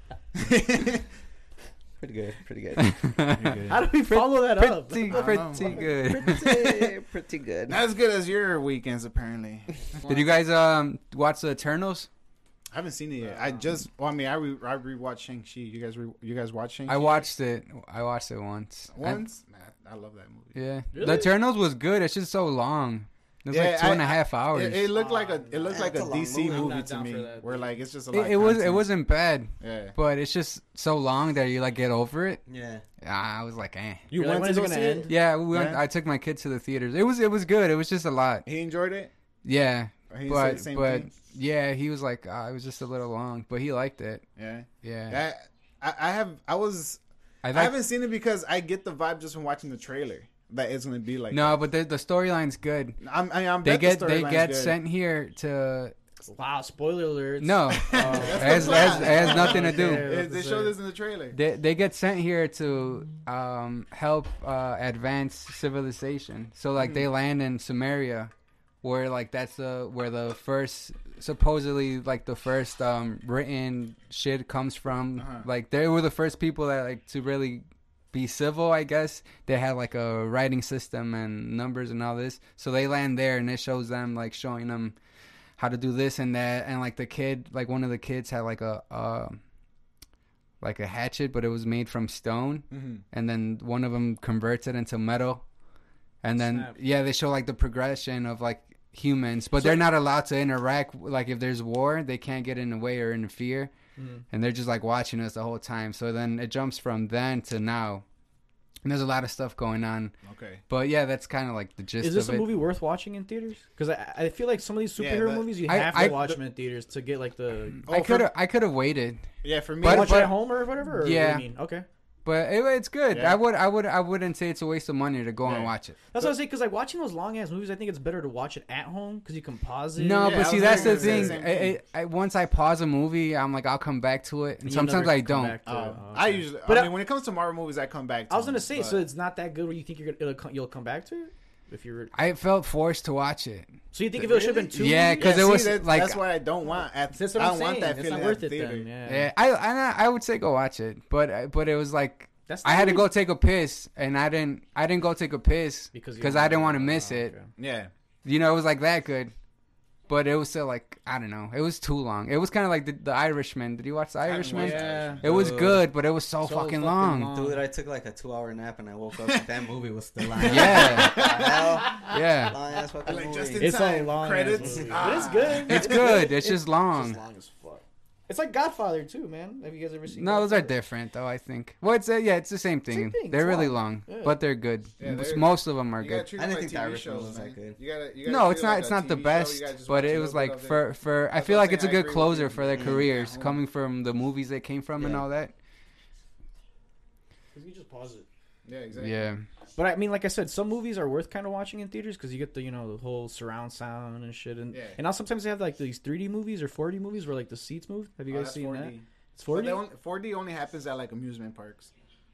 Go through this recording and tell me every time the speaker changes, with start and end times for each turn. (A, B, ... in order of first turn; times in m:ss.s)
0:00.3-0:01.1 A
0:02.0-0:03.0 B
0:02.8-0:06.8 C
0:03.3-0:03.8 A
0:03.7-0:05.2 D
0:05.1-0:05.9 A
0:05.6-0:07.8 B
0:07.7-0:10.3 A
0:10.0-0:12.1 C
0:12.7-0:17.2 A
0:13.2-0:13.6 D
0:16.9-0:19.2 C
0:18.9-0:20.6 A
0:20.5-0:24.8 C
0:20.9-0:21.3 D
0:23.5-0:28.9 A
0:24.9-0:27.7 D
0:25.7-0:26.8 B
0:28.1-0:32.4 C
0:29.6-0:30.0 A
0:32.4-0:32.8 B
0:33.0-0:34.1 C
0:34.1-0:35.8 A
0:34.1-0:35.1 D
0:35.1-0:38.4 C
0:38.4-0:39.1 A
0:39.4-0:44.2 C
0:40.1-0:41.1 A
0:44.4-0:47.0 A
0:44.8-0:45.2 C
0:47.4-0:47.7 C
0:47.5-0:51.6 A
0:51.3-0:53.0 C
0:53.0-0:54.8 A
0:53.6-0:55.9 C
0:56.3-1:00.7 D
0:57.4-1:00.0 C
0:57.9-1:01.4 A
0:58.4-0:58.8 B
1:01.3-1:08.3 C
1:06.8-1:07.1 A
1:08.8-1:24.9 C
1:15.2-1:15.5 A
1:25.6-1:29.4 C
1:30.6-1:35.4 C
1:32.7-1:33.0 A
1:36.2-1:43.7 C
1:36.4-1:36.8 D
1:44.0-1:44.2 D
1:44.3-1:48.0 C
1:48.8-1:50.1 C
1:50.2-1:50.6 A
1:50.7-1:52.5 C
1:52.0-1:57.9 D
1:55.0-1:56.3 A
1:55.7-1:56.3 C
1:57.8-1:59.3 C
1:57.9-1:58.3 A
1:59.4-2:00.3 A
1:59.8-2:00.4 C
1:59.8-2:01.8 D
2:00.9-2:01.4 C
2:02.2-2:06.0 C
2:03.1-2:03.4 A
2:05.4-2:06.3 A
2:06.1-2:11.4 D
2:10.0-2:15.6 C
2:10.2-2:11.8 A
2:14.6-2:16.9 D
2:15.6-2:19.0 A
2:18.3-2:22.1 D
2:22.1-2:23.8 C
2:23.9-2:25.4 D
2:24.2-2:28.9 A
2:24.7-2:26.2 C
2:27.1-2:29.3 D
2:29.0-2:37.3 C
2:32.5-2:33.1 D
2:35.9-2:37.5 D
2:37.6-2:37.9 A
2:38.2-2:39.3 C
2:40.1-2:47.3 C
2:44.2-2:45.6 A
2:44.5-2:45.8 D
2:46.4-2:47.6 D
2:47.3-2:53.8 B
2:50.4-2:52.1 A
2:50.4-2:51.4 C
2:51.4-2:52.1 D
2:52.0-2:52.6 C
2:53.0-2:56.2 A
2:53.6-3:00.7 D
2:54.5-2:55.3 B
2:55.6-2:57.2 C
3:00.1-3:06.3 C
3:02.9-3:04.4 D
3:05.0-3:13.6 A
3:06.4-3:07.8 B
3:08.2-3:15.5 C
3:12.7-3:13.0 B
3:15.0-3:15.2 B
3:17.5-3:18.3 D
3:18.6-3:19.3 A
3:19.0-3:19.4 C
3:19.8-3:29.8 D
3:24.7-3:25.0 A
3:28.3-3:31.9 A